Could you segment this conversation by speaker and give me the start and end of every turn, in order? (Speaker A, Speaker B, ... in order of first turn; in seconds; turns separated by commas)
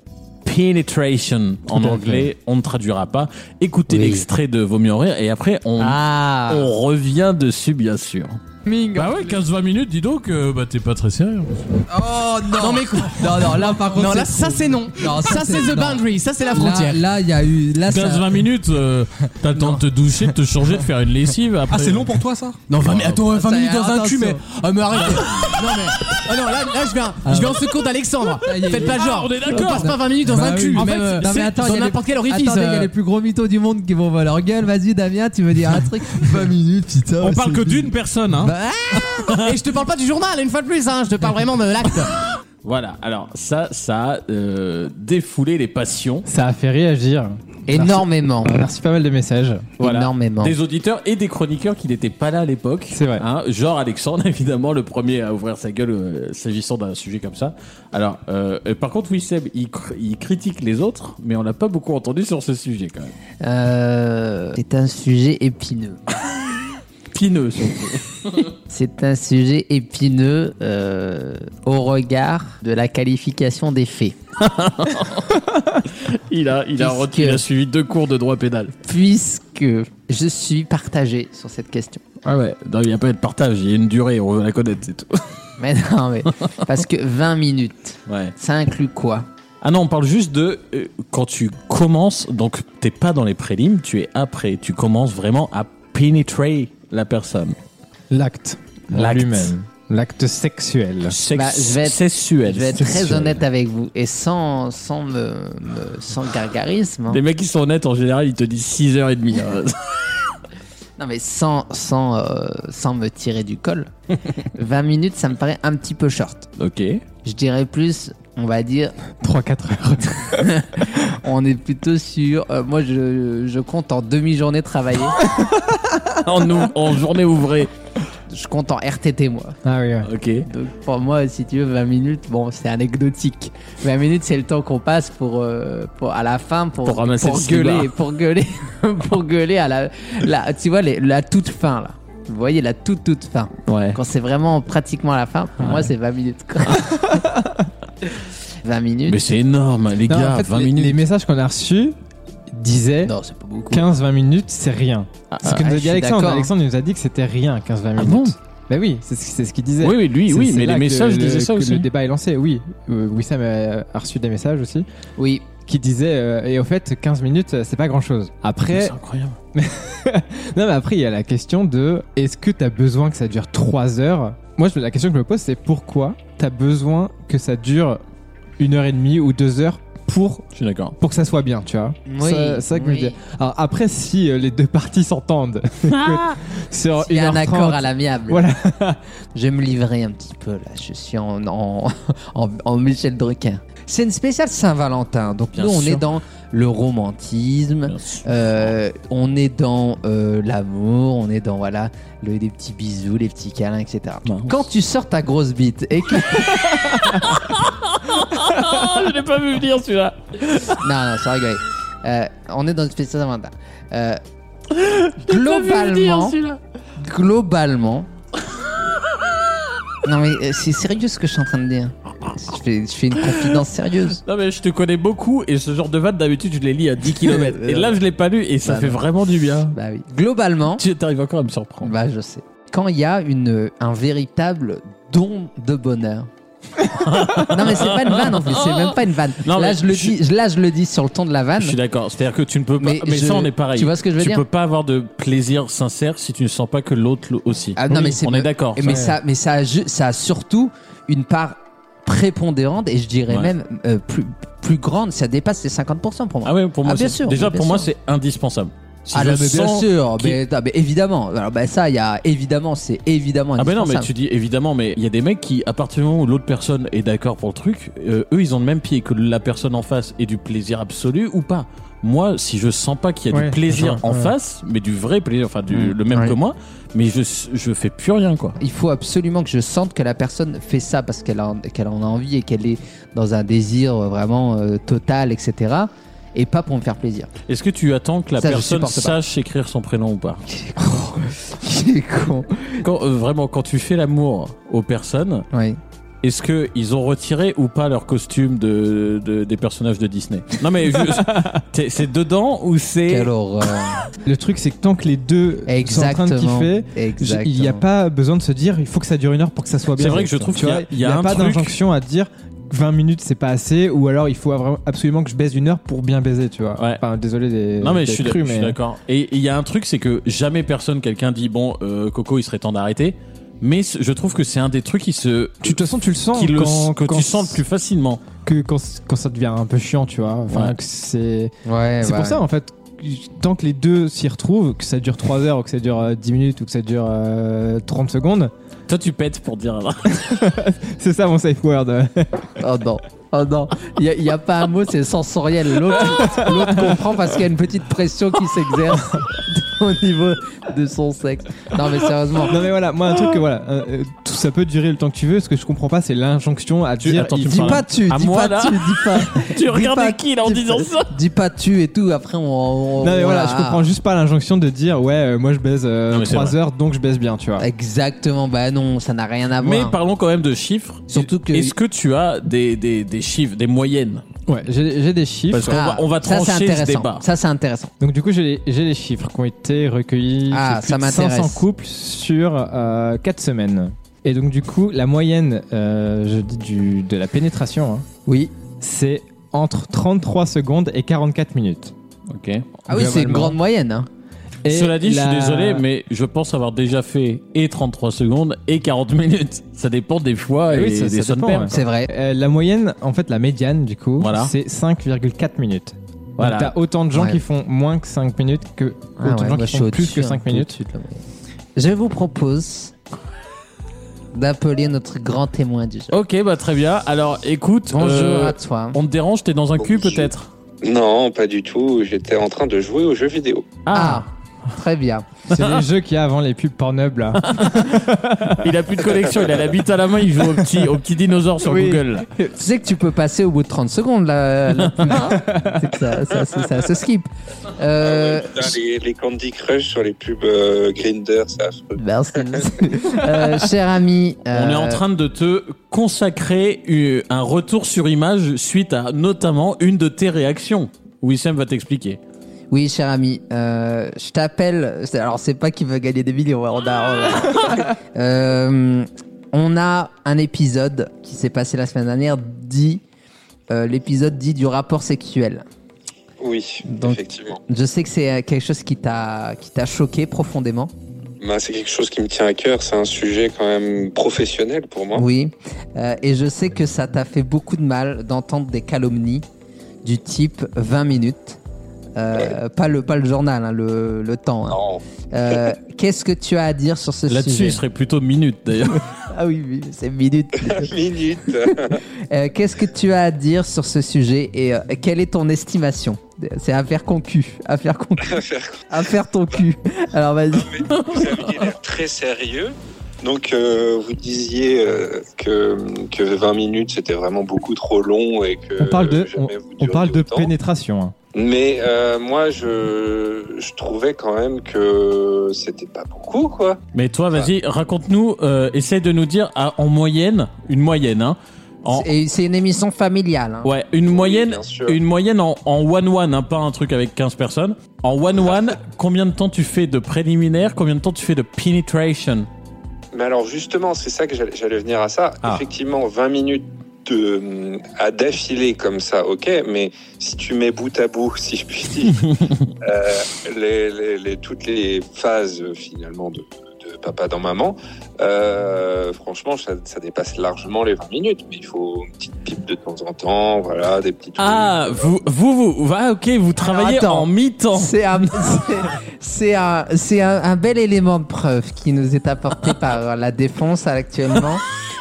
Speaker A: 0.4-8.4, Speaker B: 1.7-2.3, Speaker C: 3.9-4.2, Speaker C: 5.8-6.7, Speaker C: 8.7-9.2, Speaker A: 8.9-11.6, Speaker C: 11.9-18.3, Speaker D: 12.6-17.0, Speaker A: 17.9-22.2, Speaker D: 22.7-32.9, Speaker A: 22.8-23.2, Speaker C: 23.2-24.4, Speaker A: 25.0-25.5, Speaker C: 27.2-27.6, Speaker C: 28.4-39.3, Speaker A: 28.8-30.0, Speaker A: 37.2-38.5, Speaker D: 39.4-42.1, Speaker A: 42.6-46.2, Speaker B: 46.2-49.8, Speaker C: 47.7-48.6, Speaker C: 49.8-50.5, Speaker A: 49.8-63.1, Speaker B: 52.9-53.2, Speaker C: 63.4-66.0, Speaker A: 67.1-68.5, Speaker C: 68.7-74.2, Speaker A: 74.4-78.7, Speaker C: 76.8-77.4, Speaker C: 78.8-82.0, Speaker A: 82.2-85.2, Speaker C: 85.6-89.2, Speaker A: 88.1-88.3, Speaker A: 89.6-97.5, Speaker B: 98.1-101.2, Speaker A: 98.9-99.5, Speaker A: 101.1-103.1, Speaker C: 101.3-107.2, Speaker B: 102.8-103.4, Speaker A: 107.1-110.0, Speaker C: 111.0-113.9, Speaker C: 114.5-116.5, Speaker A: 116.6-117.0, Speaker C: 117.2-118.9, Speaker B: 119.2-120.5, Speaker C: 120.4-125.2, Speaker B: 125.3-125.8, Speaker A: 126.2-127.7, Speaker C: 128.3-129.6, Speaker B: 129.6-130.1, Speaker A: 130.0-130.4, Speaker C: 130.4-147.2, Speaker A: 136.8-137.9, Speaker A: 143.7-144.0, Speaker C: 148.6-149.3, Speaker A: 149.1-150.9, Speaker B: 150.1-151.9, Speaker B: 152.5-153.1, Speaker C: 153.0-153.8, Speaker B: 153.7-164.8, Speaker A: 155.3-155.7, Speaker C: 155.4-156.5, Speaker A: 158.0-158.3, Speaker A: 159.8-161.9, Speaker C: 165.2-165.4, Speaker B: 165.7-168.9, Speaker A: 168.7-169.3, Speaker B: 169.5-178.0, Speaker B: 178.6-180.5, Speaker A: 180.5-180.9, Speaker B: 181.0-189.0, Speaker C: 182.1-183.2, Speaker A: 186.0-186.3, Speaker C: 187.0-188.4, Speaker C: 189.3-206.6, Speaker A: 195.6-196.0, Speaker A: 197.9-198.7, Speaker A: 204.2-204.6, Speaker A: 206.5-210.8, Speaker C: 210.8-214.2, Speaker A: 214.7-216.6, Speaker C: 215.2-216.3, Speaker C: 217.0-218.1, Speaker C: 220.0-224.2, Speaker A: 223.2-223.6, Speaker A: 224.2-229.8, Speaker C: 227.2-228.0, Speaker C: 228.6-229.0, Speaker C: 229.7-230.8, Speaker A: 230.8-231.9, Speaker C: 231.8-236.3, Speaker A: 236.9-240.2, Speaker C: 237.5-241.8, Speaker A: 241.6-249.0, Speaker C: 242.8-244.4, Speaker C: 247.8-257.9, Speaker B: 248.8-249.1, Speaker A: 256.4-260.4, Speaker C: 259.1-264.1, Speaker A: 263.6-278.6, Speaker B: 273.3-274.3, Speaker C: 275.7-276.4, Speaker C: 278.6-287.3, Speaker A: 287.5-290.4, Speaker C: 288.4-289.1, Speaker C: 290.5-292.8, Speaker A: 292.8-295.4, Speaker C: 295.5-295.8, Speaker A: 296.2-303.3, Speaker C: 303.1-304.0, Speaker B: 304.2-318.8, Speaker C: 305.7-307.8, Speaker A: 309.9-311.8, Speaker A: 316.8-317.0, Speaker A: 317.8-325.8, Speaker B: 325.6-327.6, Speaker A: 326.3-328.2, Speaker B: 328.4-338.5, Speaker A: 330.5-330.8, Speaker C: 331.6-332.4, Speaker A: 338.9-340.2, Speaker B: 340.2-342.4, Speaker C: 342.6-352.6, Speaker B: 352.5-357.9, Speaker A: 357.0-361.1, Speaker C: 357.5-363.8, Speaker B: 363.0-367.6, Speaker A: 366.1-366.6, Speaker C: 367.6-369.9, Speaker A: 369.6-374.2, Speaker C: 371.1-371.7, Speaker B: 374.5-375.8, Speaker A: 375.5-377.2, Speaker C: 375.7-377.9, Speaker B: 378.0-388.1, Speaker C: 380.5-381.6, Speaker C: 388.2-388.5, Speaker B: 388.8-391.9, Speaker A: 392.3-392.6, Speaker B: 392.9-393.6, Speaker C: 392.9-394.1, Speaker B: 394.6-395.8, Speaker A: 394.7-401.7, Speaker B: 400.7-410.7, Speaker C: 401.7-402.1, Speaker A: 404.2-404.5, Speaker A: 406.4-406.7, Speaker C: 409.2-411.2, Speaker C: 411.8-412.9, Speaker C: 414.3-416.1, Speaker A: 416.1-420.5, Speaker C: 417.9-419.0, Speaker E: 419.8-420.3, Speaker E: 420.8-423.8, Speaker A: 423.8-424.2, Speaker C: 423.9-425.2, Speaker A: 425.5-425.8, Speaker B: 425.5-428.6, Speaker A: 427.4-428.0, Speaker A: 428.6-432.3, Speaker B: 431.7-432.0, Speaker C: 432.5-438.7, Speaker B: 435.1-435.8, Speaker E: 438.0-442.6, Speaker C: 441.9-445.0, Speaker A: 444.5-452.2, Speaker C: 452.7-463.0, Speaker C: 463.7-465.6, Speaker E: 466.4-467.6, Speaker C: 466.9-470.9, Speaker E: 471.4-475.2, Speaker C: 475.1-479.4, Speaker C: 480.0-481.6, Speaker C: 482.1-484.8, Speaker E: 484.7-485.0, Speaker C: 485.3-487.8, Speaker A: 487.3-489.0, Speaker C: 489.3-490.9, Speaker E: 490.6-492.0, Speaker C: 491.7-498.4, Speaker E: 498.2-498.8, Speaker C: 498.9-500.9, Speaker E: 500.5-510.5, Speaker B: 508.8-511.1, Speaker E: 511.3-516.8, Speaker A: 516.9-522.1, Speaker C: 521.9-523.7, Speaker A: 523.6-532.5, Speaker E: 524.0-525.0, Speaker E: 533.1-542.2, Speaker A: 542.1-542.7, Speaker E: 542.8-555.0, Speaker A: 554.4-558.0, Speaker C: 556.6-564.6